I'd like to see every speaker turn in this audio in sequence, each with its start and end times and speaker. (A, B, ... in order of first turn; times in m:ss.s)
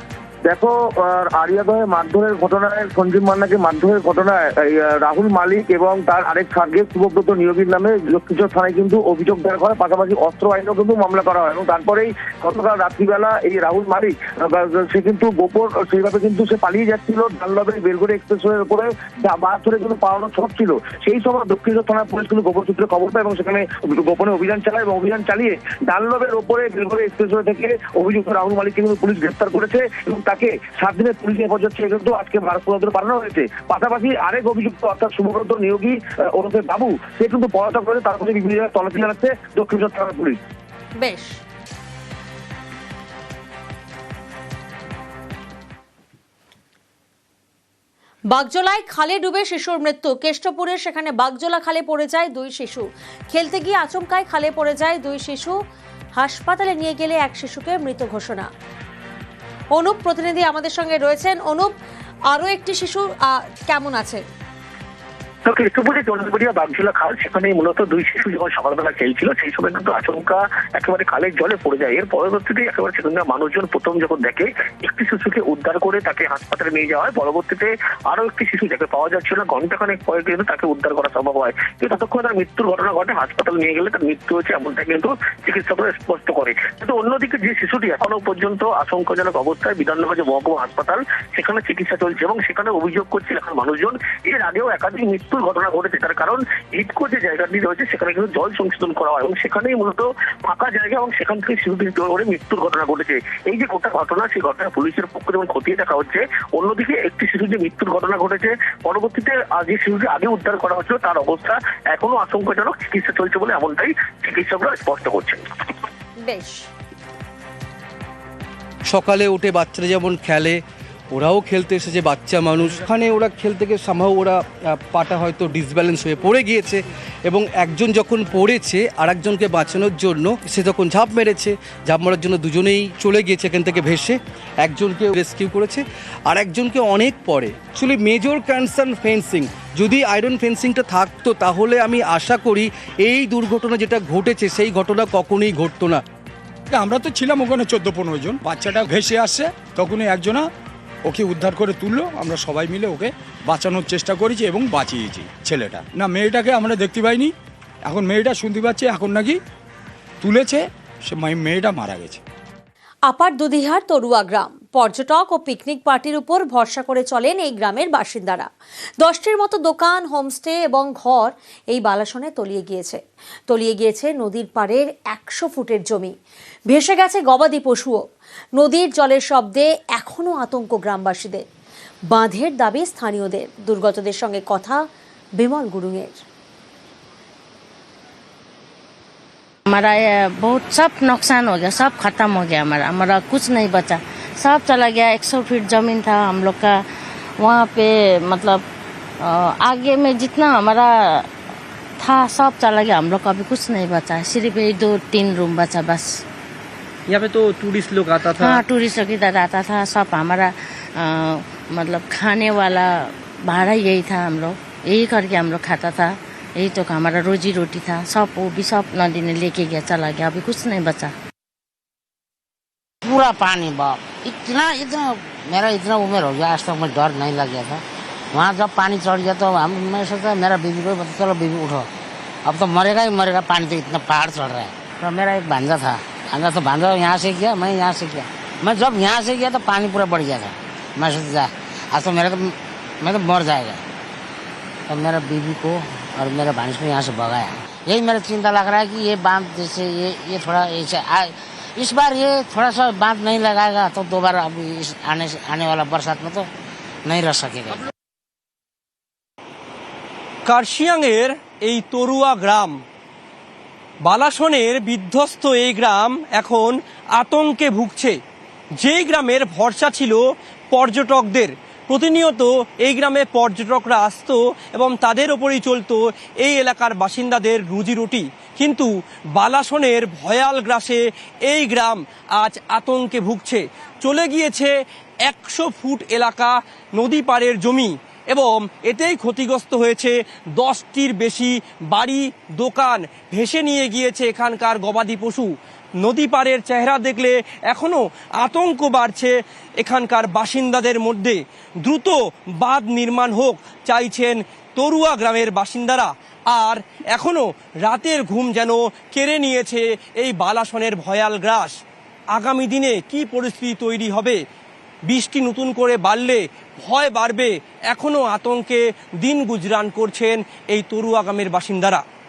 0:00.5-0:40.4 A
0:41.0-0:41.4 B
0:48.3-0:55.6 B
0:56.2-0:58.5 B
0:59.8-1:01.7 B
1:02.3-1:04.2 B
1:05.4-1:55.4 C
1:56.2-1:56.7 B
1:58.9-2:00.6 D
2:01.1-2:26.0 D
2:26.7-2:30.5 E
2:31.1-2:37.3 E
2:37.9-2:39.4 E
2:40.2-2:42.2 E
2:43.1-2:48.5 B
2:49.0-2:56.2 B
2:56.7-2:58.0 B
2:58.6-3:01.4 B
3:02.1-3:04.8 B
3:05.4-3:06.2 B
3:09.7-3:16.8 F
3:17.4-3:18.6 F
3:19.2-3:21.3 F
3:22.0-3:26.2 F
3:27.1-3:28.6 G
3:28.2-3:41.1 F
3:43.0-3:47.8 H
3:48.3-3:51.9 H
3:52.4-4:03.8 H
4:04.9-4:16.5 H
4:17.0-4:17.8 H
4:20.5-4:22.8 G
4:24.0-4:28.2 G
4:28.8-5:11.8 G
5:12.3-5:14.4 G
5:15.1-5:22.0 G